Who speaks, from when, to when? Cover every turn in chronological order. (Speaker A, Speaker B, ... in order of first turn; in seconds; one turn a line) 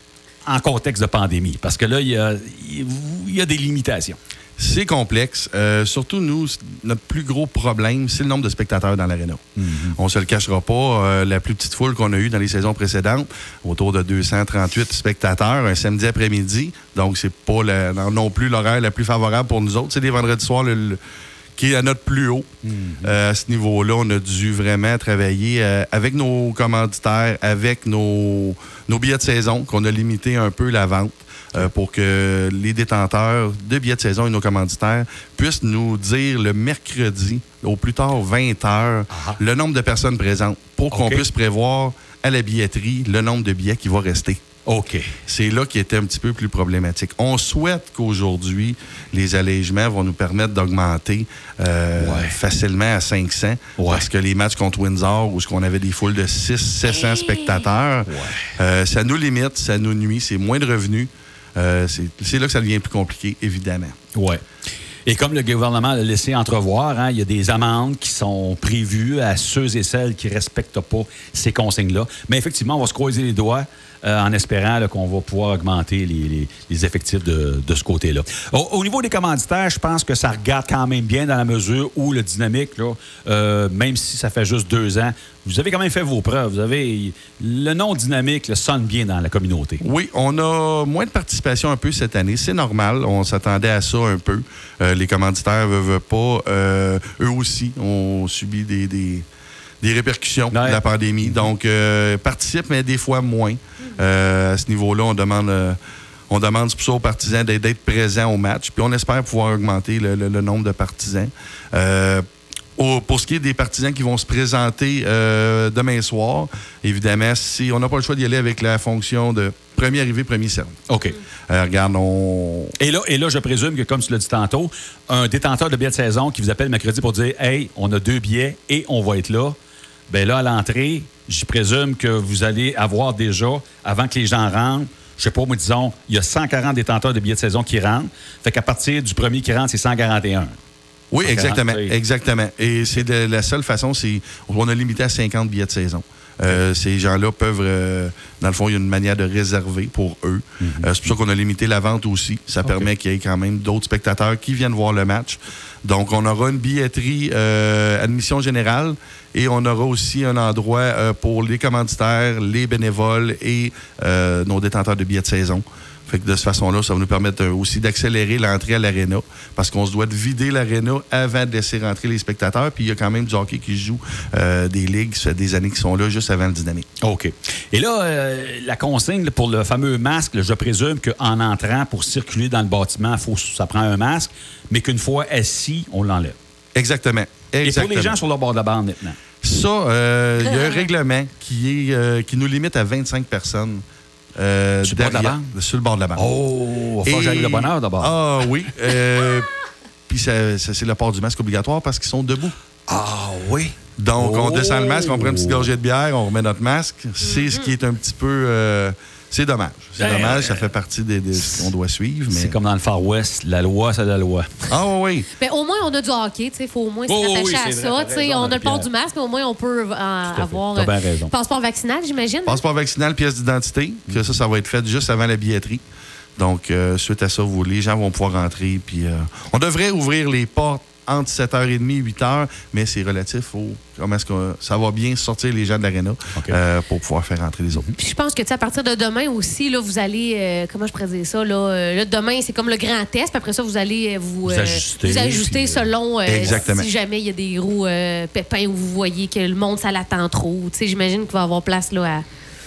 Speaker A: 0.5-4.2
Speaker B: 4.6-21.0
Speaker A: 9.6-10.0
Speaker B: 21.6-22.5
Speaker A: 22.6-23.1
Speaker B: 23.0-44.4
Speaker A: 39.1-39.4
Speaker A: 40.9-41.2
Speaker A: 44.7-45.1
Speaker B: 45.3-64.0
Speaker A: 52.0-52.4
Speaker A: 53.8-54.1
Speaker C: 57.0-57.6
Speaker A: 58.0-58.5
Speaker A: 64.1-64.4
Speaker A: 65.0-89.8
Speaker B: 89.8-99.2
Speaker B: 99.8-105.8
Speaker A: 100.5-101.4
Speaker B: 106.3-112.2
Speaker B: 112.8-120.8
Speaker A: 120.9-121.2
Speaker B: 121.5-122.7
Speaker A: 122.8-129.6
Speaker A: 130.1-140.6
Speaker B: 141.1-176.8
Speaker A: 141.2-141.9
Speaker A: 150.6-151.1
Speaker A: 177.0-186.3
Speaker B: 186.7-188.2
Speaker A: 187.6-189.2
Speaker B: 189.4-193.8
Speaker C: 190.4-190.8
Speaker B: 194.3-196.3
Speaker A: 194.8-195.5
Speaker A: 196.2-198.1
Speaker B: 197.0-199.5
Speaker B: 200.1-202.6
Speaker A: 202.9-205.7
Speaker B: 204.0-212.6
Speaker C: 207.2-207.7
Speaker A: 210.0-210.7
Speaker A: 211.4-211.7
Speaker A: 212.3-214.7
Speaker B: 214.7-215.3
Speaker C: 215.4-222.6
Speaker A: 217.1-218.9
Speaker A: 220.3-221.3
Speaker B: 222.4-225.8
Speaker B: 226.4-237.9
Speaker C: 237.9-252.2
Speaker A: 244.4-245.9
Speaker B: 246.2-246.9